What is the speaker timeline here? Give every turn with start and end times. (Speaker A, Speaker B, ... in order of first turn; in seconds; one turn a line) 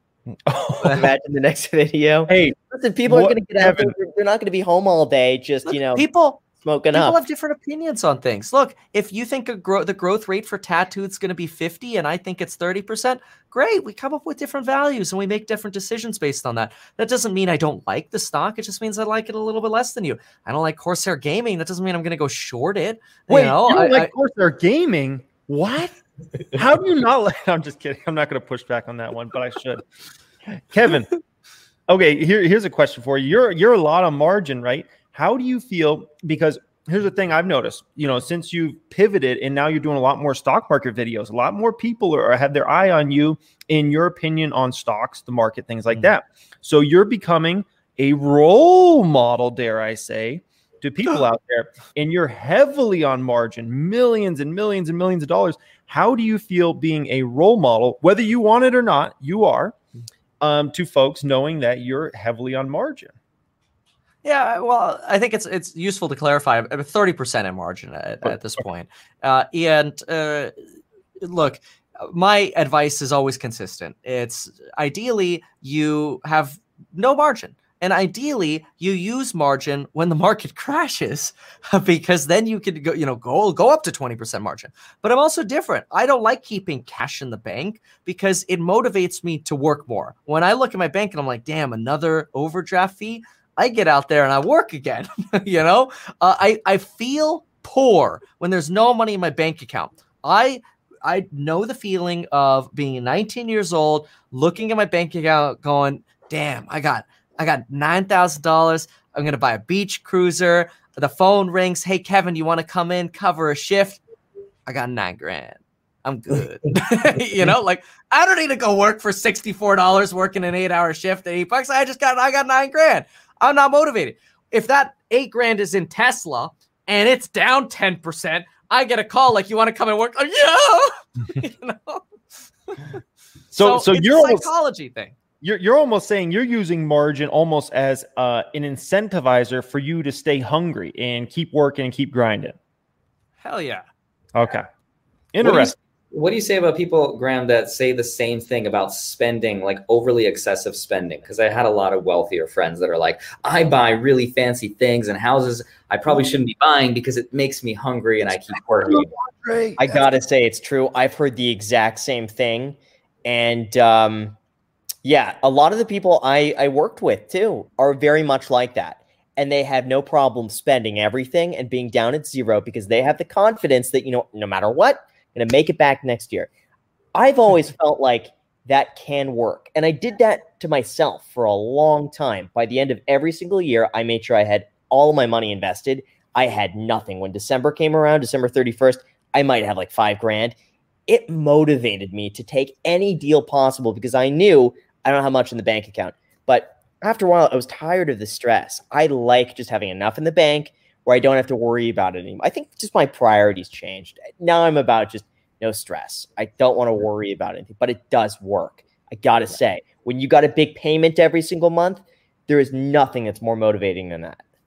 Speaker A: 0.4-1.1
Speaker B: 0.8-7.2
Speaker A: 2.3-4.0
Speaker C: 5.7-6.4
Speaker C: 6.9-24.1
Speaker A: 23.3-25.9
Speaker A: 26.5-29.8
Speaker A: 30.5-31.1
Speaker A: 31.9-59.8
Speaker A: 60.4-63.1
Speaker C: 64.2-70.5
Speaker C: 71.2-114.0
Speaker C: 114.7-132.1
Speaker A: 133.5-134.5
Speaker C: 133.5-135.2
Speaker A: 135.4-142.6
Speaker C: 143.4-143.9
Speaker A: 144.3-144.7
Speaker A: 145.3-145.8
Speaker D: 145.4-159.1
Speaker A: 158.8-160.1
Speaker B: 159.8-164.4
Speaker B: 165.0-176.5
Speaker B: 177.2-190.6
Speaker B: 191.1-214.4